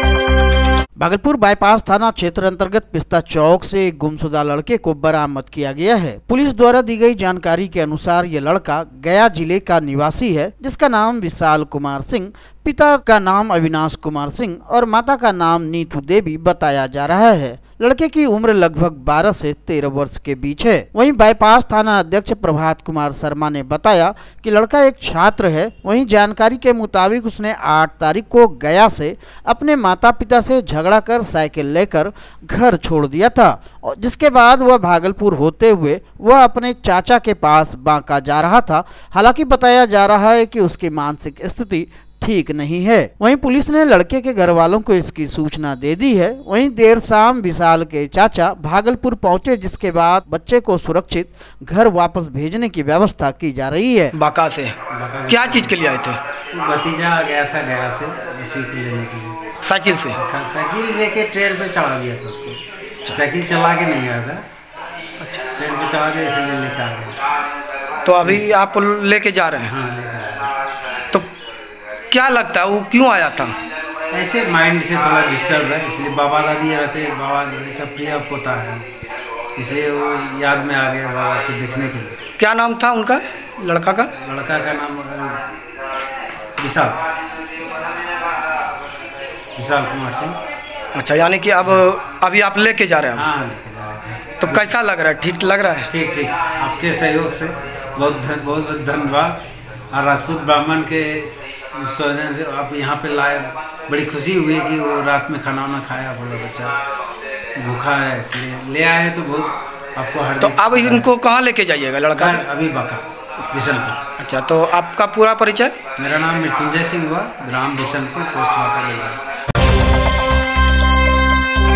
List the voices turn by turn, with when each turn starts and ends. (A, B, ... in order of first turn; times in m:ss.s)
0:01.0-0:54.2 A
0:54.1-0:54.8 B
0:54.9-0:56.0 C
0:55.3-0:56.2 B
0:56.5-0:59.4 C
0:59.6-1:00.2 B
1:00.1-1:04.4 C
1:05.5-1:07.2 C
1:08.0-1:09.7 B
1:09.6-1:10.5 C
1:12.1-1:13.6 B
1:14.1-1:18.8 C
1:19.6-1:22.2 C
1:22.4-1:24.1 B
1:24.1-1:25.4 C
1:26.6-1:27.0 C
1:29.6-1:30.4 C
1:30.9-1:33.3 B
1:33.1-1:34.8 C
1:34.4-1:35.9 B
1:35.9-1:39.4 C
1:39.9-1:46.8 C
1:47.6-1:51.1 C
1:50.4-1:52.4 B
1:52.1-1:54.0 C
1:54.2-1:55.8 B
1:56.0-1:59.2 C